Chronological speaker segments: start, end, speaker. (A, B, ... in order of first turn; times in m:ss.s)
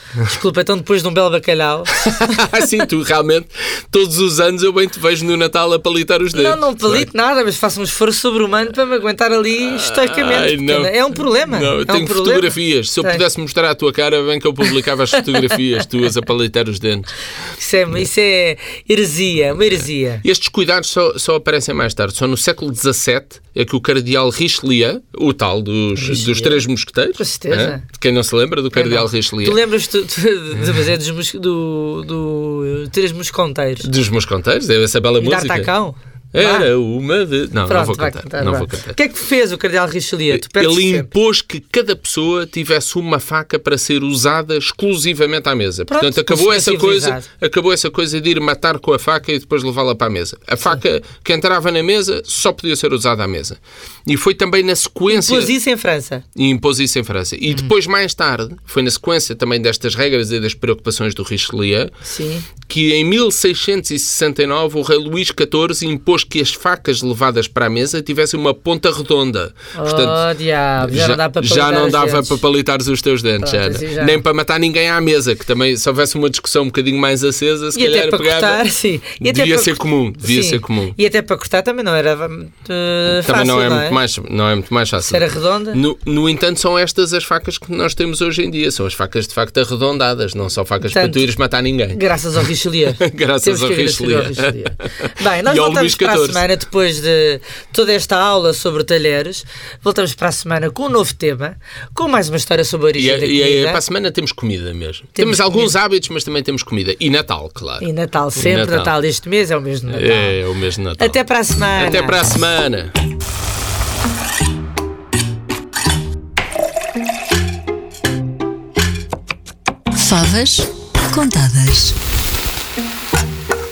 0:00.2-0:02.4 A
0:01.9-0:07.1 B
0:06.3-0:13.2 A
0:09.6-0:17.1 B
0:17.6-0:20.2 A
0:20.2-0:29.6 B
0:26.0-0:26.6 A
0:27.1-0:27.8 A
0:28.7-0:33.9 A
0:33.8-0:35.7 B
0:35.2-0:36.7 A
0:36.3-0:39.0 B
0:37.7-0:41.1 A
0:40.3-0:55.5 B
0:45.9-0:47.2 A
0:55.1-0:56.2 A
0:56.3-1:01.9 B
1:02.0-1:02.5 A
1:02.6-1:10.2 B
1:09.7-1:12.4 A
1:10.8-1:18.6 B
1:13.4-1:14.2 A
1:17.7-1:24.0 A
1:19.2-1:21.0 B
1:23.2-1:32.4 B
1:25.0-1:25.8 A
1:30.8-1:31.3 A
1:31.9-1:43.8 A
1:32.9-1:36.4 B
1:43.0-1:48.9 B
1:45.2-1:45.7 A
1:47.8-1:50.4 A
1:49.9-1:51.2 B
1:51.0-1:52.2 A
1:51.8-1:52.9 B
2:00.0-2:02.0 C